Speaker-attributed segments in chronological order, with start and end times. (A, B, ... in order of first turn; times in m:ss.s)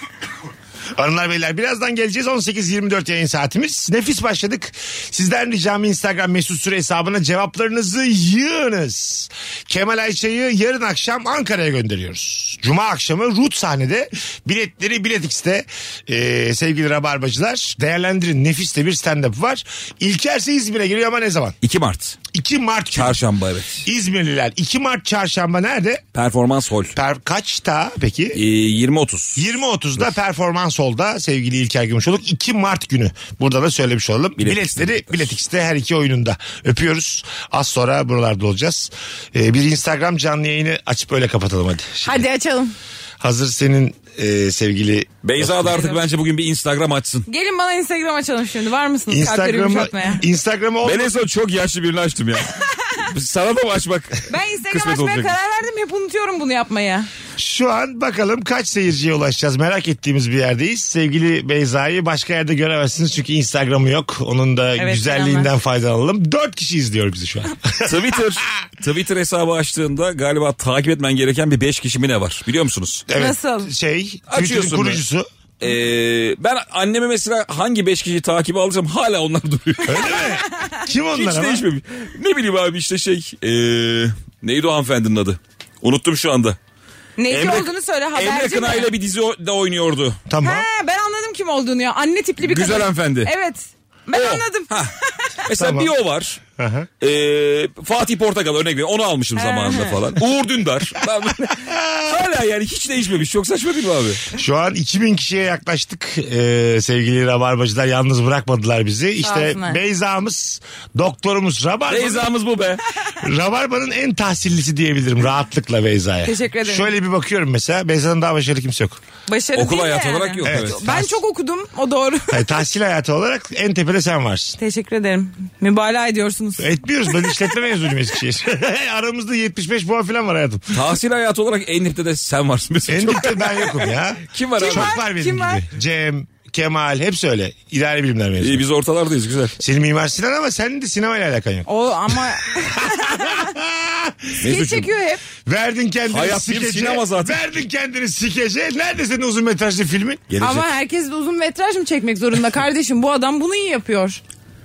0:01.0-0:21.6 A
0:21.6-0:22.2 B
0:22.3-0:23.2 A
0:22.9-0:23.9 B
0:23.8-0:26.0 A
0:26.1-0:27.0 B
0:26.9-0:28.4 A
0:28.3-0:29.4 B
0:29.4-0:42.2 A
0:34.4-0:35.3 B
0:42.0-0:42.7 C
0:43.2-0:45.7 A
0:45.2-0:47.3 B
0:47.3-0:50.2 C
0:49.1-0:51.1 A
0:50.8-0:55.3 B
0:54.3-0:57.1 C
0:57.4-1:08.4 A
1:04.8-1:05.5 C
1:07.8-1:13.0 B
1:13.1-1:15.3 A
1:13.2-1:13.7 C
1:14.3-1:15.0 B
1:15.6-1:20.4 B
1:19.9-1:21.6 A
1:21.1-1:26.6 B
1:27.2-1:28.9 C
1:27.3-1:30.2 B
1:30.3-1:30.7 A
1:30.4-1:35.3 C
1:32.4-1:33.3 B
1:34.1-1:34.9 B
1:35.4-1:36.4 B
1:35.6-1:35.9 A
1:36.6-1:36.9 A
1:37.0-1:44.2 B
1:39.4-1:40.0 C
1:41.7-1:42.1 A
1:44.4-1:52.3 A
1:49.2-1:49.8 C
1:51.9-1:52.8 B
1:53.2-1:59.0 A
1:56.2-1:56.9 C
1:59.3-2:02.4 C
1:59.6-2:00.9 B
2:00.4-2:01.2 A
2:02.3-2:04.6 A
2:04.6-2:07.3 C
2:06.6-2:10.8 A
2:10.7-2:13.6 B
2:12.9-2:18.6 A
2:14.3-2:15.0 B
2:14.6-2:15.6 C
2:18.4-2:19.6 B
2:19.6-2:21.7 A
2:21.7-2:23.5 C
2:22.6-2:24.4 A
2:24.4-2:24.9 B
2:24.4-2:25.2 C
2:25.5-2:30.3 A
2:26.1-2:27.4 B
2:30.3-2:30.7 B
2:30.4-2:34.2 C